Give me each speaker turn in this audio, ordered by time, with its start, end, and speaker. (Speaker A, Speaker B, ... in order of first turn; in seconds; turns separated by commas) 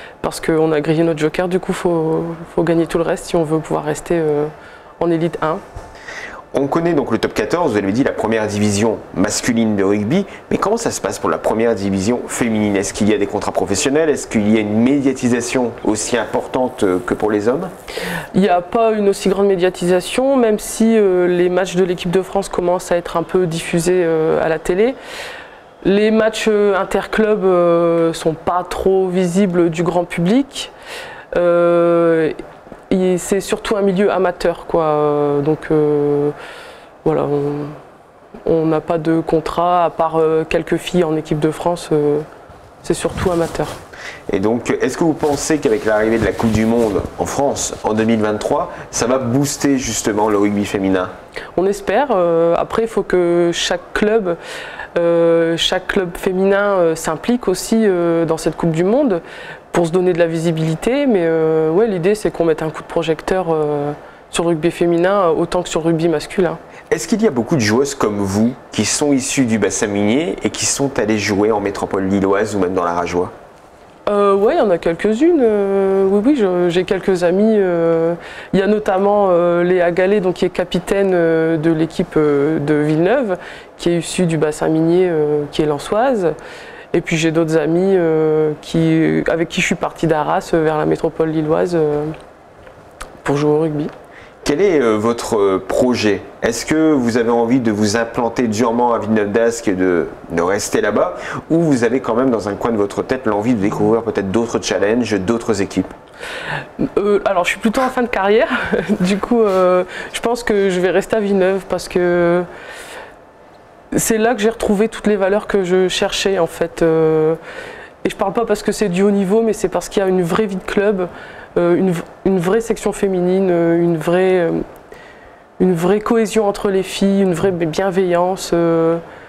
Speaker A: 0.2-5.6, Speaker B: 6.5-17.7, Speaker A: 18.3-24.9, Speaker A: 25.8-30.7, Speaker A: 31.3-32.4, Speaker A: 32.9-36.3, Speaker A: 37.0-37.8, Speaker A: 38.4-42.2, Speaker A: 42.8-43.8, Speaker B: 44.3-51.1, Speaker A: 51.5-54.4, Speaker A: 54.9-66.6, Speaker B: 66.9-73.3, Speaker A: 74.1-86.3, Speaker A: 86.9-92.1, Speaker A: 93.2-93.9, Speaker B: 94.4-105.9, Speaker A: 107.0-112.5, Speaker A: 113.9-117.4, Speaker A: 118.0-124.6, Speaker A: 125.6-129.0